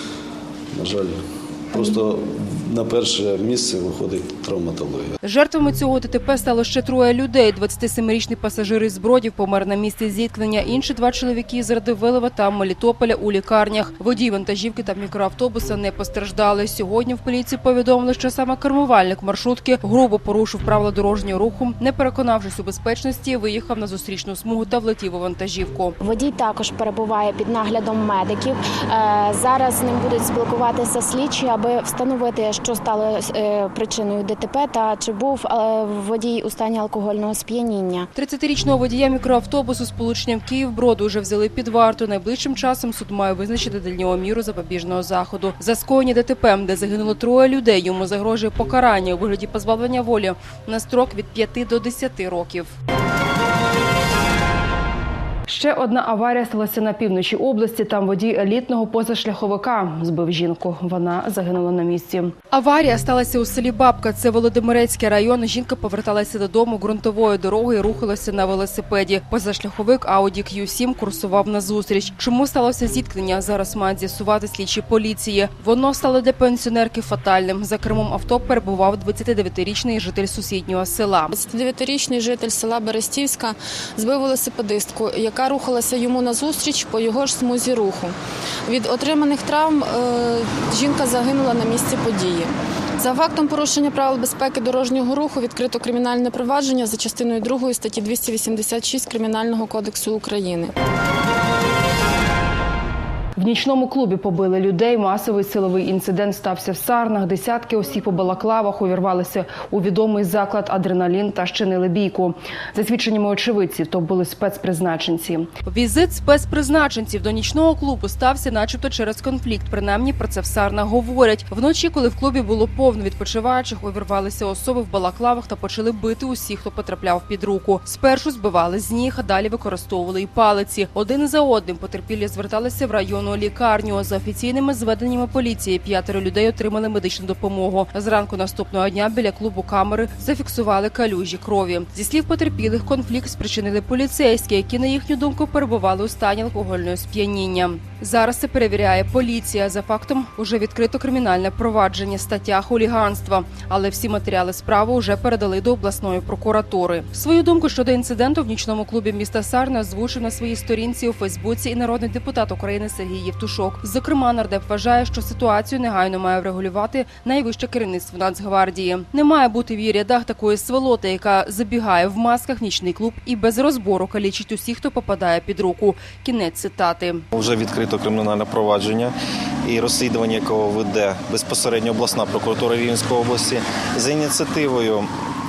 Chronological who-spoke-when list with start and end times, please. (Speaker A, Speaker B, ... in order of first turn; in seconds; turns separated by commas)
Speaker A: 0.7-5.2, Speaker B: 5.2-26.0, Speaker C: 26.0-38.1, Speaker B: 38.2-52.7, Speaker D: 55.5-62.4, Speaker B: 62.5-81.3, Speaker E: 81.3-100.7, Speaker B: 103.4-105.4, Speaker D: 105.4-115.5, Speaker B: 110.8-111.1, Speaker B: 115.6-177.3, Speaker F: 177.3-185.1